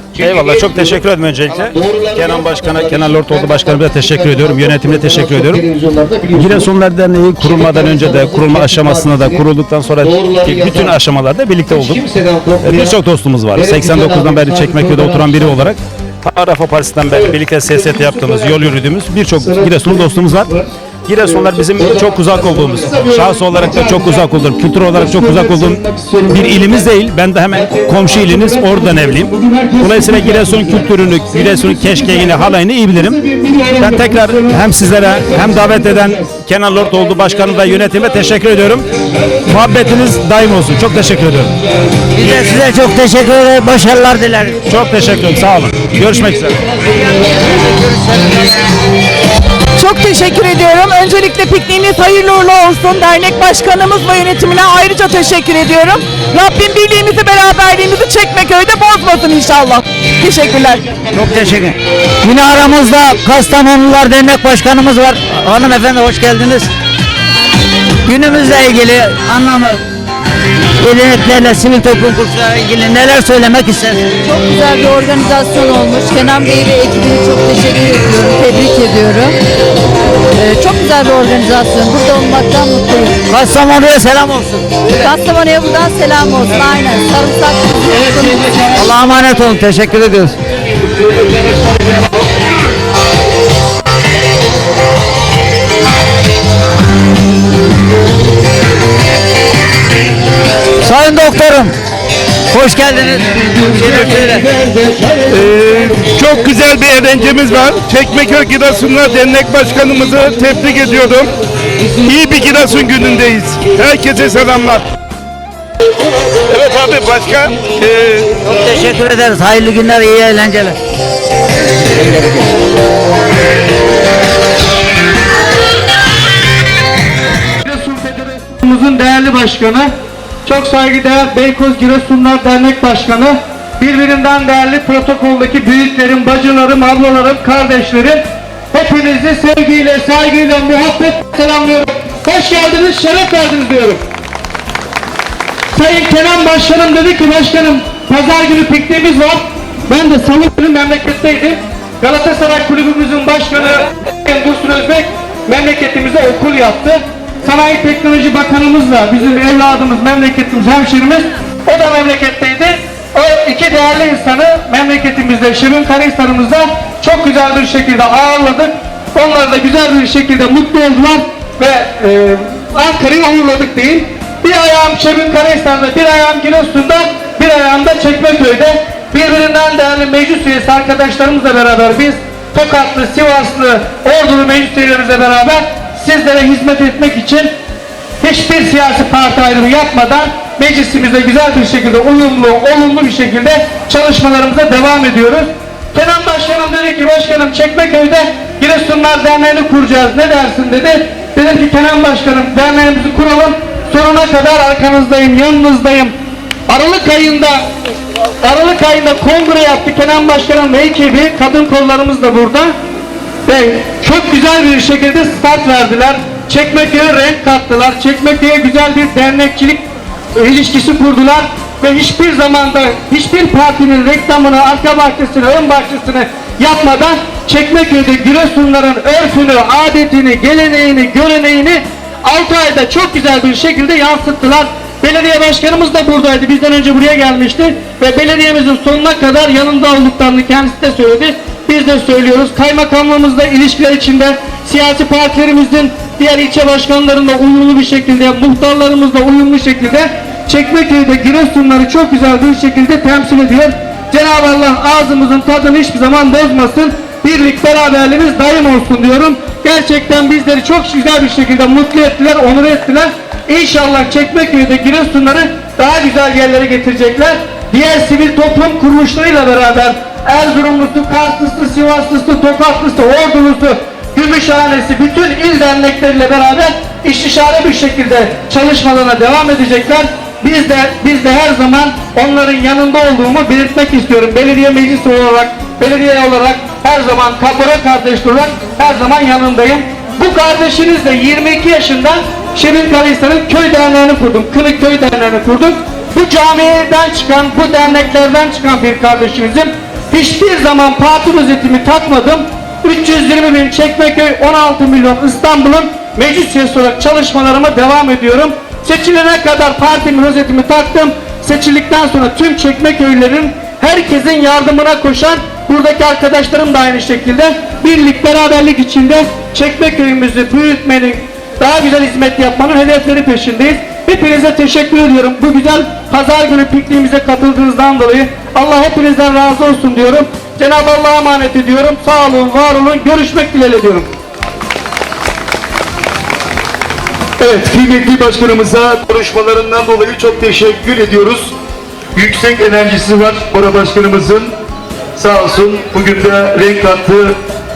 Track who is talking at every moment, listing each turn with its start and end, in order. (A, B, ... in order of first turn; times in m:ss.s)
0:00.2-0:05.6 A
0:00.2-0:01.0 B
0:01.8-0:06.7 B
0:06.3-0:12.0 A
0:07.4-0:09.4 B
0:10.0-0:11.0 B
0:11.7-0:13.0 B
0:12.6-0:38.9 A
0:13.6-0:15.7 B
0:21.8-0:22.9 B
0:39.5-0:41.5 A
0:42.2-0:44.6 C
0:44.7-0:46.6 A
0:47.1-0:48.5 C
0:49.8-1:00.9 D
1:01.0-1:06.7 C
1:08.0-1:09.8 C
1:10.8-1:14.0 C
1:14.2-1:19.4 E
1:20.4-1:23.2 E
1:23.3-1:24.8 C
1:25.0-1:28.5 E
1:28.8-1:30.4 C
1:40.8-1:41.7 C
1:42.5-1:44.5 C
1:45.3-1:51.3 F
1:52.0-1:54.8 F
1:56.5-1:58.3 F
1:58.4-2:00.8 C
2:07.6-2:09.9 G
2:10.4-2:24.0 G
2:25.7-3:07.5 G
3:08.2-3:26.1 G
3:26.7-3:27.7 G
3:28.4-3:32.8 G
3:33.5-3:39.8 G
3:40.4-5:34.1 G
5:37.5-5:41.5 H
5:42.2-5:44.5 H
5:45.2-5:47.4 H